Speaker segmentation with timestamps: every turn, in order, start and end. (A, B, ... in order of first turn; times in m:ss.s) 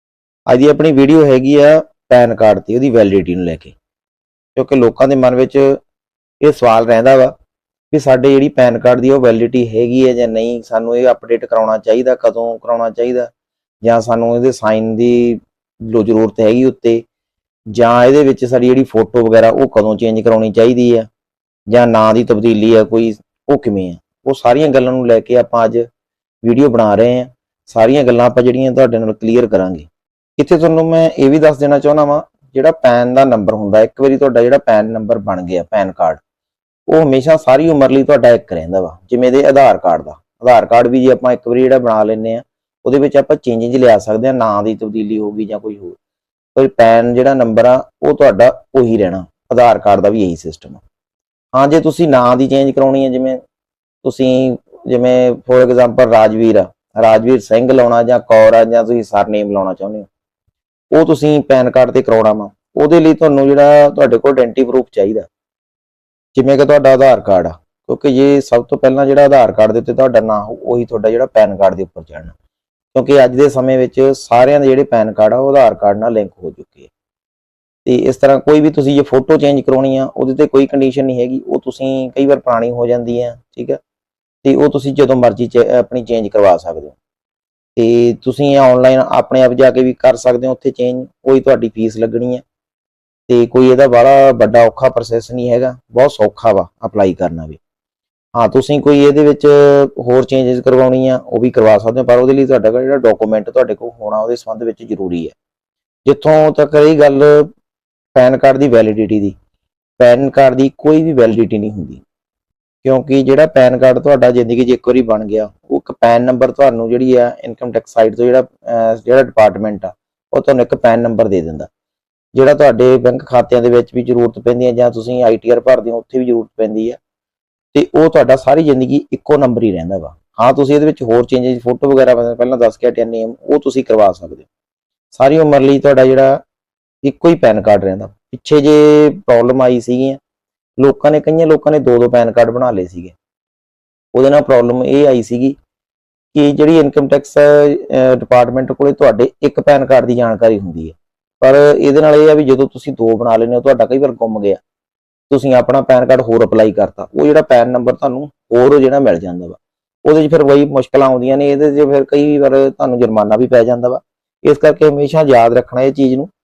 0:00.5-0:03.8 A
0:04.6-0:05.8 A
0:06.4-0:07.3 A
0:07.9-0:13.3 A
0:13.8-0:17.0 A
0:17.7-0:21.1 A
0:21.7-0:25.9 A
0:26.4-0:36.2 A
0:36.9-0:46.0 A
0:46.6-0:50.8 A
0:51.5-0:53.4 A
0:54.0-1:00.1 A
1:00.9-1:05.3 A
1:06.3-1:12.3 A
1:12.9-1:16.9 A
1:17.8-1:23.8 A
1:24.4-1:27.0 A
1:27.8-1:32.4 A
1:33.3-1:37.6 A
1:38.4-1:45.4 A
1:46.0-1:47.5 A
1:48.2-1:49.4 A
1:50.0-1:52.0 A
1:52.8-2:01.7 A
2:02.3-2:07.0 A
2:07.7-2:14.5 A
2:15.1-2:16.4 A
2:17.0-2:20.2 A
2:20.8-2:23.2 A
2:24.1-2:25.6 A
2:26.3-2:34.6 A
2:35.3-2:46.3 A